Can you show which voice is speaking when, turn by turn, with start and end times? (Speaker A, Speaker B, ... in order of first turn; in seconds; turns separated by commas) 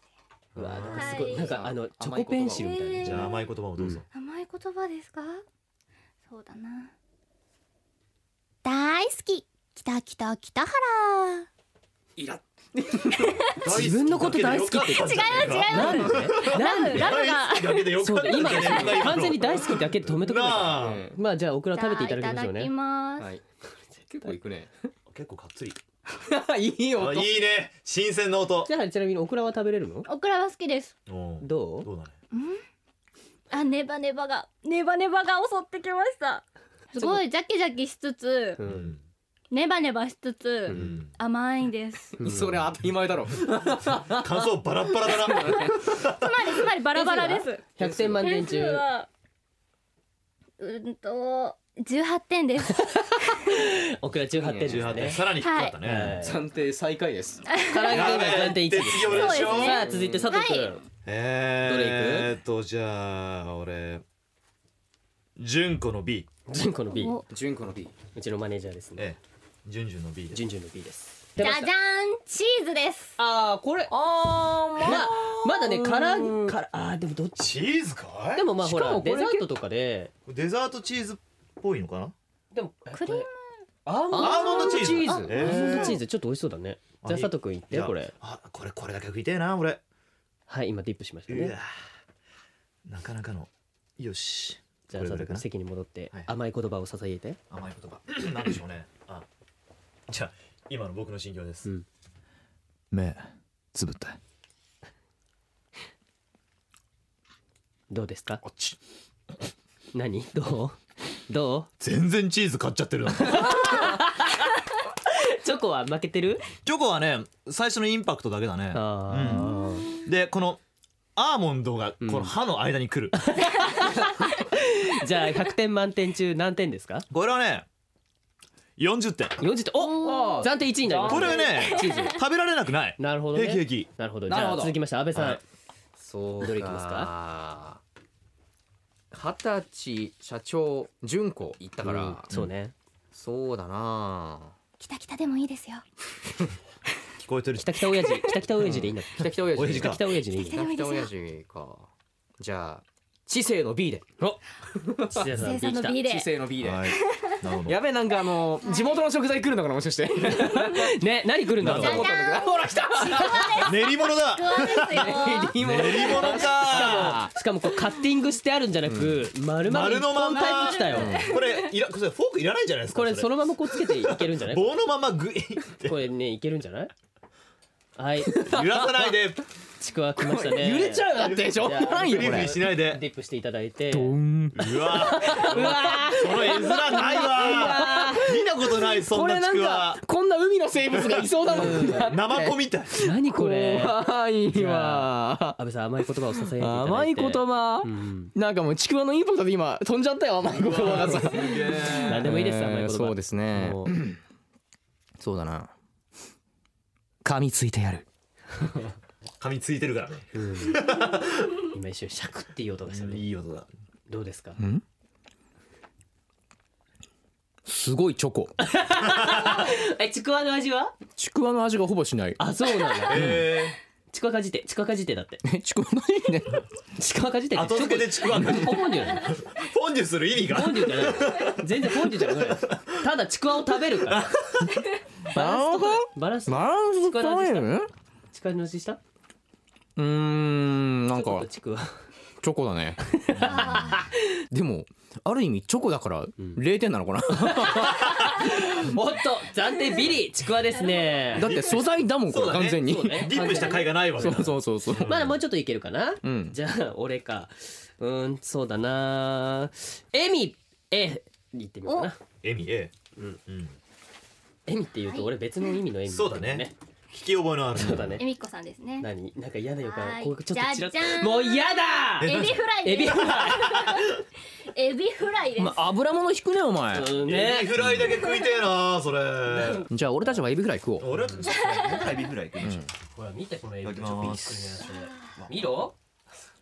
Speaker A: 0.5-1.2, Speaker B: 0.5-3.2, Speaker C: 0.8-1.6, Speaker D: 1.2-2.8, Speaker C: 2.5-3.5, Speaker A: 3.0-4.0, Speaker C: 4.1-5.4, Speaker C: 6.3-6.9, Speaker C: 8.6-11.5, Speaker D: 12.2-13.4, Speaker A: 13.5-21.1, Speaker B: 13.6-17.1, Speaker C: 14.8-19.2, Speaker B: 18.0-22.7, Speaker D: 20.7-21.1, Speaker C: 21.7-23.3, Speaker B: 23.9-24.4, Speaker D: 24.1-24.7, Speaker A: 25.1-25.8, Speaker D: 26.1-27.3, Speaker A: 26.9-28.7, Speaker B: 28.6-30.1, Speaker C: 30.1-30.9, Speaker A: 31.1-32.1, Speaker B: 31.4-31.9, Speaker C: 32.3-32.6, Speaker C: 33.5-38.6, Speaker B: 38.6-38.9, Speaker A: 38.6-39.0, Speaker C: 39.5-42.1, Speaker B: 40.7-40.9, Speaker A: 40.7-41.1, Speaker D: 42.2-45.7, Speaker B: 42.2-42.6, Speaker A: 44.0-46.6, Speaker C: 46.1-47.6, Speaker B: 46.9-48.8, Speaker D: 47.8-48.2, Speaker C: 48.2-49.1, Speaker C: 50.6-53.4, Speaker B: 52.8-55.2, Speaker D: 54.4-55.2, Speaker A: 54.6-56.2, Speaker C: 55.3-55.8, Speaker B: 55.8-56.4, Speaker D: 56.2-57.4, Speaker C: 57.5-58.2, Speaker B: 57.6-60.8, Speaker A: 57.9-59.9, Speaker C: 58.9-60.8, Speaker D: 59.8-60.2, Speaker A: 61.0-64.0, Speaker B: 61.6-62.3, Speaker A: 65.4-66.3, Speaker B: 66.5-67.2, Speaker C: 66.9-67.2, Speaker D: 67.3-67.9, Speaker B: 68.1-69.0, Speaker A: 69.0-70.4, Speaker B: 70.3-71.7, Speaker C: 71.4-73.1, Speaker B: 73.2-73.9, Speaker D: 73.9-76.5, Speaker B: 74.8-77.5, Speaker A: 77.4-78.5, Speaker B: 78.3-80.1, Speaker D: 78.6-79.5, Speaker A: 80.2-82.1, Speaker B: 82.5-83.3, Speaker C: 82.9-83.3, Speaker D: 83.8-85.9, Speaker B: 84.0-88.1, Speaker A: 84.1-86.0, Speaker C: 84.2-85.9, Speaker A: 87.0-89.8, Speaker B: 90.5-91.5, Speaker A: 91.3-91.7, Speaker A: 92.8-95.4, Speaker B: 94.9-97.4, Speaker A: 97.5-99.2, Speaker A: 100.1-101.7, Speaker A: 102.9-104.2, Speaker B: 107.9-108.4, Speaker A: 108.4-108.7, Speaker B: 109.9-111.7, Speaker A: 111.8-113.9, Speaker B: 113.2-114.5, Speaker B: 115.0-116.5, Speaker A: 116.6-120.6, Speaker B: 118.7-119.9, Speaker A: 121.2-123.3, Speaker B: 122.0-122.3, Speaker B: 123.2-127.0, Speaker A: 127.1-127.7, Speaker A: 128.8-129.4, Speaker B: 129.4-132.2, Speaker C: 129.9-130.4, Speaker D: 129.9-131.4, Speaker A: 131.0-133.9, Speaker C: 131.1-132.1, Speaker B: 133.0-135.4, Speaker D: 134.3-134.8, Speaker D: 136.0-137.8, Speaker B: 136.4-137.1, Speaker D: 139.1-142.3, Speaker B: 141.8-142.7, Speaker D: 143.1-144.5, Speaker C: 144.8-145.8, Speaker A: 147.2-147.9, Speaker B: 147.6-150.6, Speaker D: 148.7-151.9, Speaker A: 149.5-150.0, Speaker C: 150.3-151.1, Speaker D: 152.4-154.1, Speaker D: 154.7-155.3, Speaker B: 155.1-156.0, Speaker C: 155.3-156.3, Speaker D: 156.0-156.9, Speaker A: 156.6-157.8, Speaker C: 156.9-157.4, Speaker D: 157.6-160.9, Speaker C: 158.6-159.0, Speaker B: 160.3-162.1, Speaker D: 161.6-163.7, Speaker A: 161.6-162.0, Speaker C: 161.7-165.6, Speaker B: 163.1-163.5, Speaker A: 163.6-167.2, Speaker D: 164.9-167.3, Speaker B: 166.5-171.2, Speaker D: 168.9-169.2, Speaker A: 169.6-176.0, Speaker C: 170.4-171.7, Speaker D: 170.9-171.3, Speaker B: 172.9-174.8, Speaker B: 175.8-176.9, Speaker B: 178.0-178.4, Speaker D: 178.2-179.2, Speaker A: 178.4-179.4, Speaker B: 179.8-184.1, Speaker D: 180.2-182.6, Speaker A: 181.2-183.0, Speaker D: 183.9-195.6, Speaker A: 184.6-190.0, Speaker B: 185.0-188.2, Speaker A: 190.9-192.9, Speaker B: 191.5-192.1, Speaker B: 193.0-194.0, Speaker B: 194.5-198.3, Speaker D: 196.3-204.2, Speaker A: 200.5-202.2, Speaker B: 200.7-203.9, Speaker D: 205.2-205.7, Speaker D: 207.2-208.0, Speaker B: 208.6-208.9, Speaker A: 209.4-211.6, Speaker B: 210.3-210.8, Speaker B: 211.7-213.2, Speaker A: 212.9-213.7, Speaker B: 214.1-214.6, Speaker D: 214.6-214.8, Speaker D: 217.6-218.5, Speaker B: 218.6-220.9, Speaker A: 219.1-219.7, Speaker D: 221.2-222.4, Speaker B: 222.4-223.3, Speaker D: 223.1-223.5, Speaker A: 223.1-223.8, Speaker B: 224.1-225.4, Speaker D: 225.4-226.6, Speaker B: 227.0-229.3, Speaker A: 227.5-233.1, Speaker B: 230.5-234.3, Speaker A: 234.1-234.9, Speaker B: 235.3-237.7, Speaker D: 235.3-237.9, Speaker B: 238.3-239.0, Speaker D: 239.9-241.5, Speaker B: 241.1-242.0, Speaker D: 242.4-243.9, Speaker B: 243.1-244.1, Speaker A: 243.4-243.9, Speaker D: 244.5-248.3, Speaker B: 247.4-251.5, Speaker A: 248.0-248.4, Speaker D: 251.3-255.2, Speaker A: 251.4-255.3, Speaker B: 252.8-254.4, Speaker B: 255.0-262.2, Speaker D: 256.2-256.6, Speaker C: 261.9-262.1, Speaker A: 262.4-262.9, Speaker A: 263.5-263.8, Speaker B: 264.7-266.7, Speaker A: 266.1-268.2, Speaker B: 267.8-268.2, Speaker C: 268.2-269.1, Speaker B: 269.0-273.7, Speaker C: 269.8-271.7, Speaker A: 272.2-272.6, Speaker C: 272.2-274.2, Speaker A: 273.2-274.2, Speaker C: 274.7-275.9, Speaker D: 275.6-277.1, Speaker B: 276.9-278.0, Speaker A: 277.2-279.9, Speaker D: 277.8-278.1, Speaker B: 279.5-280.4, Speaker D: 279.9-281.3, Speaker A: 281.0-282.9, Speaker C: 281.5-282.1, Speaker D: 282.6-282.9, Speaker B: 283.1-285.9, Speaker A: 283.8-284.9